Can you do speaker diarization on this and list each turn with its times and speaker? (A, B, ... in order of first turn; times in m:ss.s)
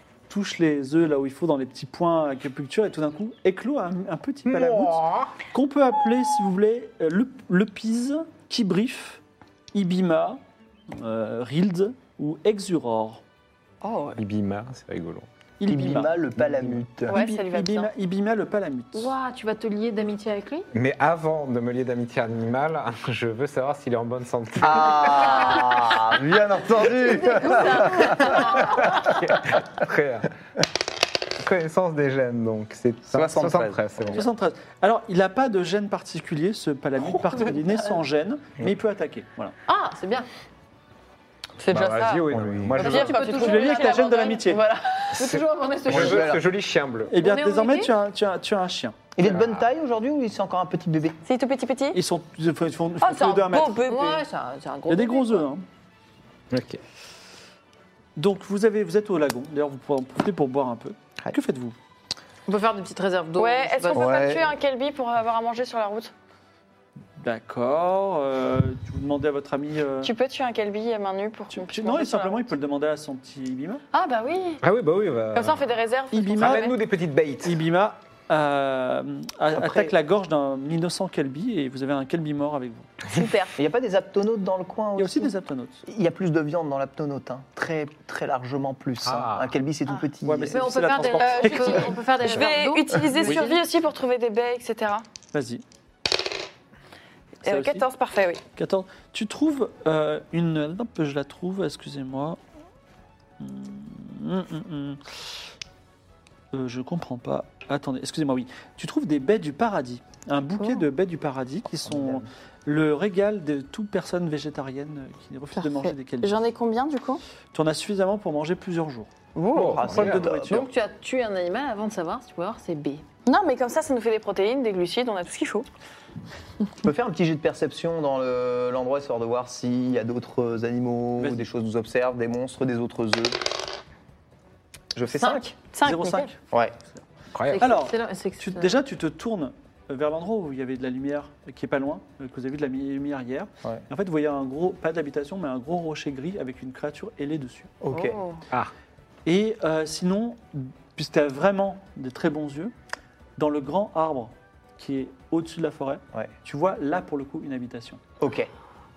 0:00.3-0:09.2 A
0:04.5-0:05.3 B
0:09.7-0:13.2 A
0:13.8-0:14.2 C
0:14.2-0:15.3 B
0:15.6-0:16.2 A
0:15.7-0:17.2 D
0:17.0-0:19.1 A
0:17.1-0:17.9 C
0:18.9-0:20.7 E
0:20.7-0:25.4 B
0:24.6-0:29.6 D
0:26.9-0:29.0 E
0:28.5-0:30.3 B
0:31.4-0:34.2 B
0:33.1-0:34.3 D
0:34.1-0:39.5 A
0:39.7-0:40.3 E
0:41.6-0:45.0 C
0:41.7-0:43.2 B
0:42.3-0:42.8 D
0:42.8-0:46.3 E
0:43.2-0:44.6 A
0:45.2-0:47.1 B
0:45.9-0:46.5 D
0:47.1-0:49.0 A
0:47.2-0:47.9 E
0:49.2-0:51.2 D
0:49.2-0:49.6 B
0:51.3-0:52.0 C
0:51.9-0:53.9 A
0:53.0-0:54.2 C
0:53.9-0:55.5 E
0:54.9-0:55.6 A
0:56.5-0:56.8 B
0:58.2-1:01.8 A
1:02.5-1:04.1 E
1:03.4-1:06.1 C
1:03.9-1:04.5 D
1:07.2-1:10.1 A
1:10.0-1:12.5 C
1:11.5-1:13.8 A
1:13.9-1:14.6 C
1:14.6-1:15.7 B
1:15.3-1:16.8 C
1:16.1-1:16.7 A
1:16.4-1:17.6 B
1:17.4-1:22.9 A
1:19.5-1:19.9 D
1:23.1-1:23.5 C
1:23.6-1:25.3 D
1:25.0-1:25.8 A
1:25.9-1:30.8 D
1:29.0-1:29.5 B
1:30.2-1:32.1 A
1:30.5-1:33.6 E
1:31.2-1:35.0 C
1:33.2-1:33.5 A
1:35.3-1:35.6 A
1:37.4-1:38.4 C
1:37.5-1:37.8 A
1:38.6-1:42.4 A
1:43.4-1:45.1 A
1:46.5-1:56.4 A
1:51.8-1:52.3 D
1:55.6-1:57.2 C
1:57.5-2:00.7 A
1:59.4-1:59.7 C
1:59.5-2:00.3 B
1:59.5-2:00.7 D
2:00.4-2:03.0 E
2:03.3-2:05.7 C
2:06.8-2:13.4 D
2:11.2-2:11.4 A
2:14.9-2:15.5 D
2:15.2-2:15.5 E
2:15.7-2:16.2 C
2:15.8-2:16.4 A
2:17.4-2:17.7 B
2:17.5-2:18.8 E
2:17.6-2:27.7 A
2:27.8-2:28.2 D
2:27.9-2:28.4 C
2:29.2-2:32.7 A
2:33.4-2:38.0 A
2:38.2-2:38.5 D